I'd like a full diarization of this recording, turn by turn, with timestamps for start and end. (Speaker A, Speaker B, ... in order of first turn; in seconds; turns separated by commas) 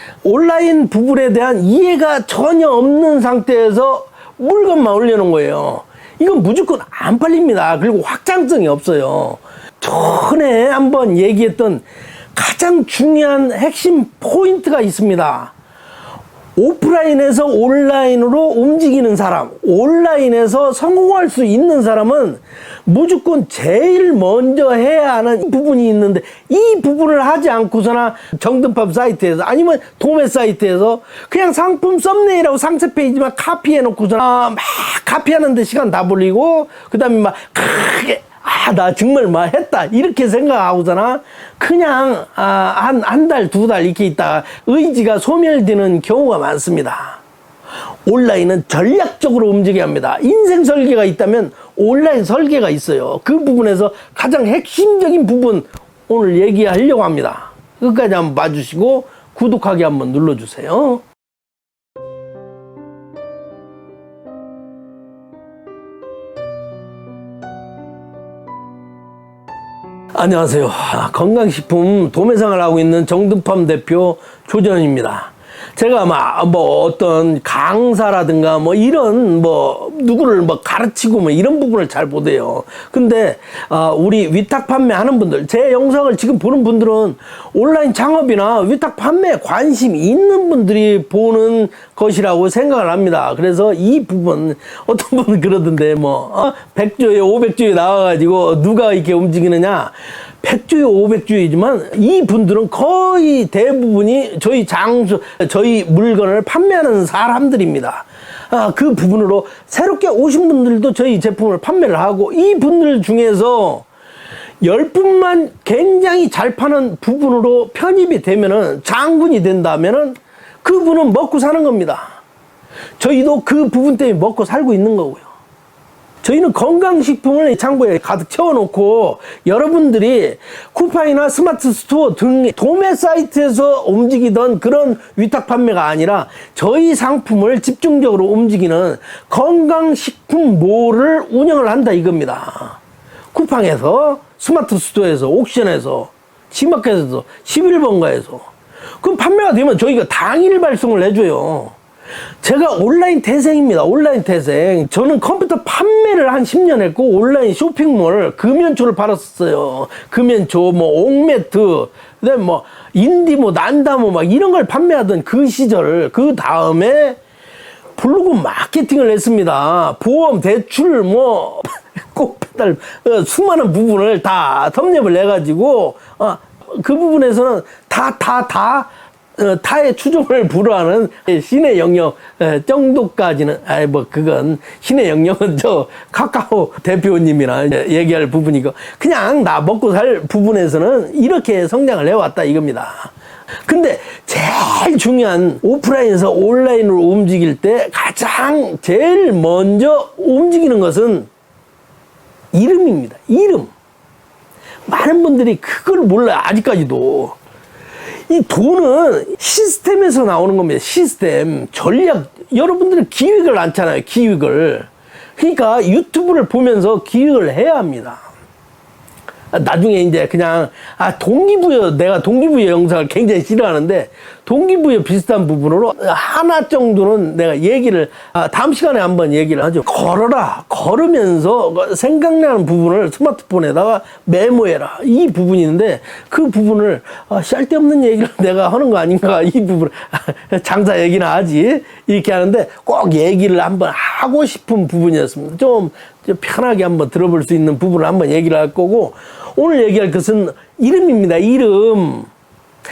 Speaker A: 0.2-15.5, Speaker A: 16.6-47.2, Speaker A: 48.1-61.0, Speaker A: 70.2-113.9, Speaker A: 114.6-122.2, Speaker A: 123.0-125.3, Speaker A: 126.2-142.8, Speaker A: 143.3-148.5, Speaker A: 149.0-151.8, Speaker A: 152.4-167.2, Speaker A: 168.0-193.1, Speaker A: 193.7-201.3, Speaker A: 202.5-203.7, Speaker A: 204.9-207.4, Speaker A: 208.3-218.2, Speaker A: 219.5-252.3